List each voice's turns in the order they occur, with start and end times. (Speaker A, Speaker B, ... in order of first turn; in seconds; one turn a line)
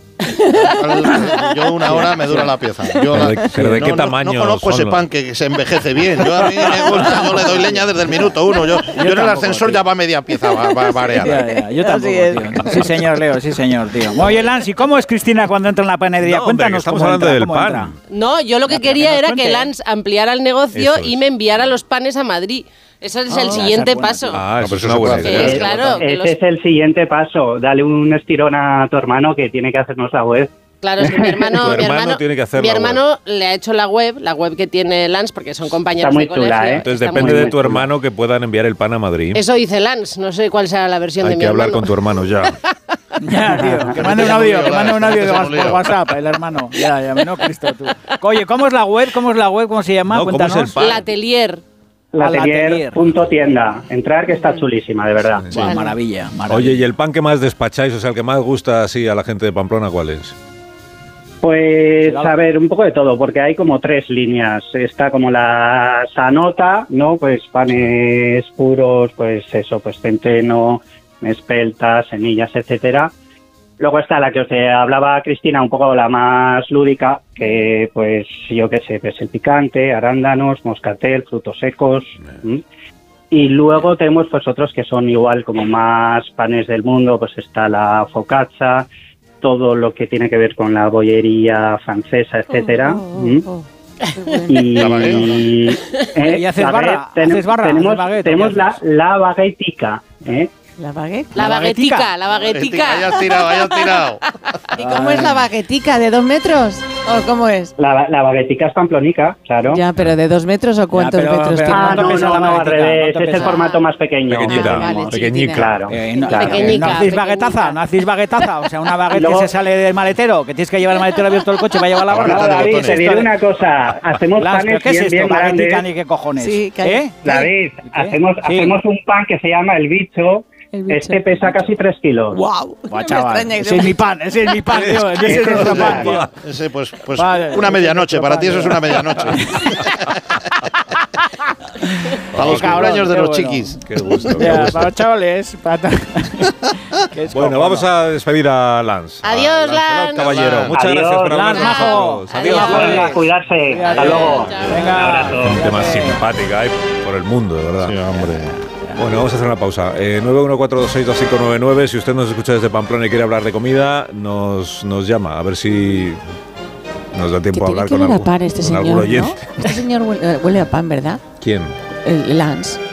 Speaker A: 0.3-1.7
Speaker B: 0.5-11.4
Speaker C: 1.9-2.5
Speaker D: 3.1-5.0
Speaker C: 3.5-3.9
Speaker C: 7.2-8.0
Speaker C: 8.9-9.8
Speaker A: 11.1-12.8
Speaker C: 11.2-17.9
Speaker D: 16.2-17.9
Speaker E: 18.1-24.4
Speaker C: 18.7-19.7
Speaker D: 20.7-21.2
Speaker C: 23.3-24.4
Speaker D: 24.3-25.8
Speaker B: 24.6-25.7
Speaker E: 25.2-26.4
Speaker F: 25.3-31.5
Speaker E: 30.8-37.6
Speaker D: 31.5-33.0
Speaker F: 36.0-37.8
Speaker D: 36.8-39.4
Speaker E: 39.3-42.0
Speaker D: 41.2-42.6
Speaker C: 43.2-50.8
Speaker B: 43.9-46.1
Speaker D: 50.1-51.1
Speaker E: 50.8-51.6
Speaker F: 52.1-55.5
Speaker C: 52.2-53.1
Speaker A: 54.3-54.6
Speaker C: 55.5-56.8
Speaker A: 55.5-55.9
Speaker D: 56.5-60.4
Speaker F: 61.4-73.1
Speaker C: 62.1-62.3
Speaker F: 73.8-82.6
Speaker F: 83.3-88.9
Speaker F: 89.4-93.4
Speaker A: 92.5-95.1
Speaker F: 94.5-100.5
Speaker B: 94.7-95.5
Speaker C: 96.2-98.8
Speaker A: 100.8-101.3
Speaker E: 101.3-103.9
Speaker C: 101.4-102.1
Speaker B: 102.4-104.2
Speaker C: 104.8-105.4
Speaker A: 104.8-107.7
Speaker F: 107.8-109.8
Speaker A: 109.6-112.5
Speaker C: 110.9-113.6
Speaker F: 111.7-116.7
Speaker A: 113.3-113.8
Speaker D: 114.3-115.9
Speaker A: 114.3-117.1
Speaker C: 115.9-123.3
Speaker E: 116.2-117.8
Speaker F: 119.1-119.5
Speaker B: 122.1-123.2
Speaker F: 122.2-125.9
Speaker C: 124.4-128.8
Speaker A: 126.4-127.4
Speaker F: 127.2-132.4
Speaker A: 130.7-131.6
Speaker A: 132.3-134.0
Speaker C: 132.9-136.3
Speaker D: 134.7-136.3
Speaker B: 135.3-140.1
Speaker C: 137.1-139.9
Speaker C: 141.8-143.7
Speaker B: 142.3-144.8
Speaker D: 142.3-143.1
Speaker D: 143.8-144.9
Speaker C: 144.4-147.9
Speaker D: 147.3-153.1
Speaker E: 149.2-150.4
Speaker B: 150.1-150.8
Speaker F: 150.7-151.6
Speaker C: 151.3-156.2
Speaker E: 152.3-153.1
Speaker F: 152.5-155.6
Speaker E: 153.8-154.9
Speaker D: 154.0-154.5
Speaker D: 155.3-158.3
Speaker B: 157.8-158.5
Speaker C: 158.5-159.1
Speaker D: 158.9-166.2
Speaker D: 167.1-169.5
Speaker A: 167.5-171.2
Speaker D: 171.4-171.8
Speaker A: 172.0-172.8